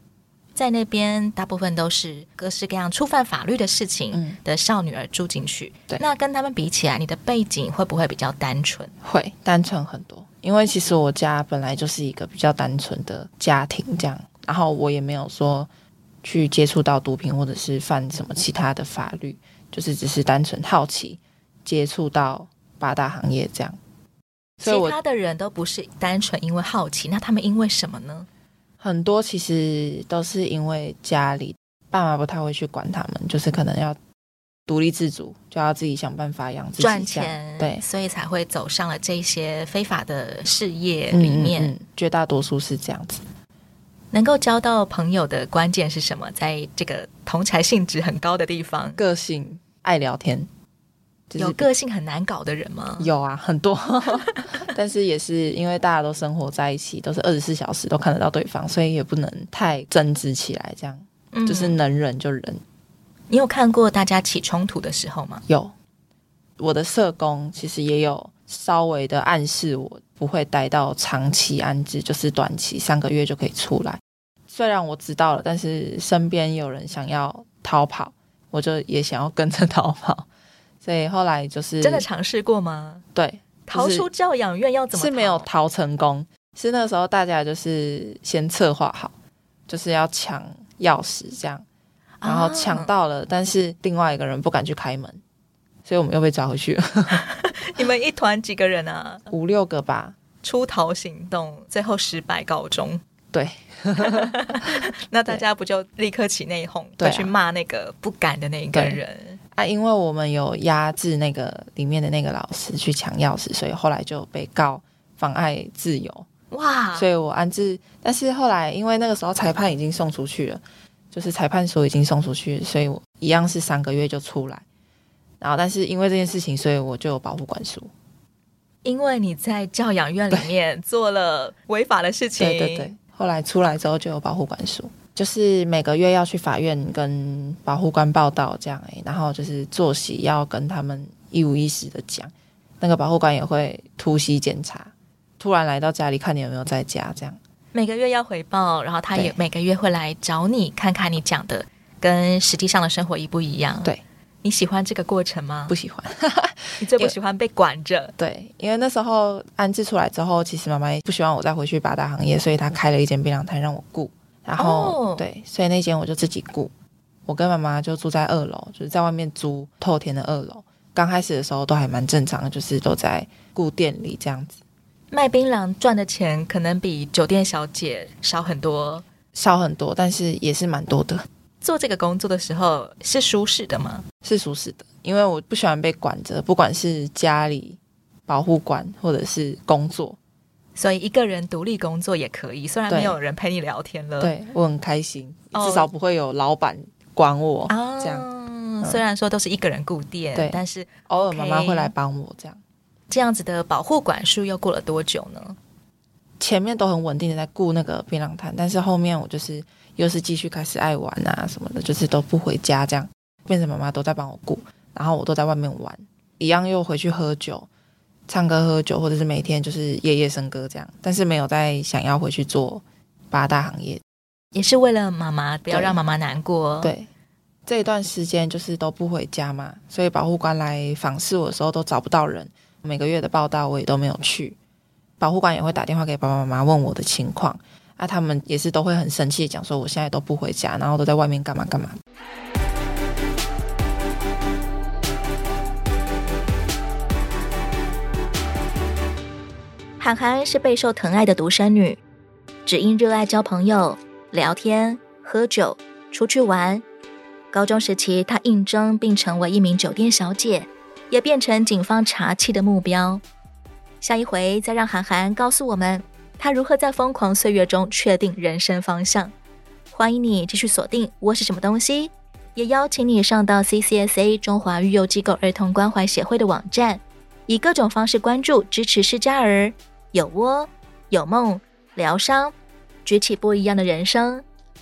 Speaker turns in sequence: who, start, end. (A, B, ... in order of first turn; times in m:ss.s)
0:00.6-0:08.9 A
0:09.0-0:15.7 B
0:16.2-0:23.8 B
0:24.6-0:25.0 B
0:24.6-0:28.3 A
0:28.8-0:34.0 B
0:34.7-0:37.8 B
0:36.8-0:41.7 A
0:41.1-0:43.2 B
0:44.1-0:49.0 A
0:49.0-0:50.5 B
0:51.3-0:51.7 B
0:51.4-0:53.1 A
0:53.0-1:02.6 B
0:54.1-0:54.6 A
1:01.3-1:01.8 A
1:03.3-1:05.4 A
1:05.5-1:05.7 B
1:06.6-1:20.3 B
1:20.8-1:22.0 B
1:21.8-1:23.0 A
1:23.1-1:24.1 B
1:23.7-1:25.5 A
1:24.9-1:29.1 B
1:29.7-1:31.6 B
1:32.2-1:32.9 A
1:32.2-1:35.2 B
1:35.8-1:37.2 B
1:37.1-1:39.2 A
1:39.3-1:40.2 B
1:40.4-1:43.0 A
1:43.3-1:45.4 B
1:44.0-1:49.4 A
1:47.0-1:47.3 B
1:48.7-1:49.0 B
1:49.5-1:56.3 B
1:56.5-1:57.1 A
1:56.9-2:04.6 B
2:05.4-2:07.9 B
2:08.8-2:12.9 A
2:12.4-2:27.4 B
2:27.7-2:35.7 A
2:35.7-2:37.1 B
2:36.8-2:38.1 A
2:38.2-2:46.7 B
2:44.6-2:45.2 A
2:47.3-2:54.6 B
2:55.1-2:59.0 A
2:59.3-3:01.2 B
3:01.6-3:04.0 A
3:04.2-3:10.2 B
3:10.8-3:14.3 A
3:12.9-3:13.2 B
3:14.2-3:18.2 B
3:15.5-3:15.9 A
3:17.7-3:21.9 A
3:20.3-3:22.6 B
3:23.1-3:25.6 A
3:26.4-3:37.7 B
3:38.3-3:44.0 B
3:44.5-3:46.9 A
3:45.7-3:46.0 B
3:46.8-3:47.1 B
3:47.7-3:54.6 B
3:55.2-4:02.0 B
4:10.0-4:12.0 A
4:12.6-4:16.8 A
4:17.5-4:23.2 A
4:24.0-4:29.3 A
4:29.9-4:42.5 A
4:43.0-4:44.4 A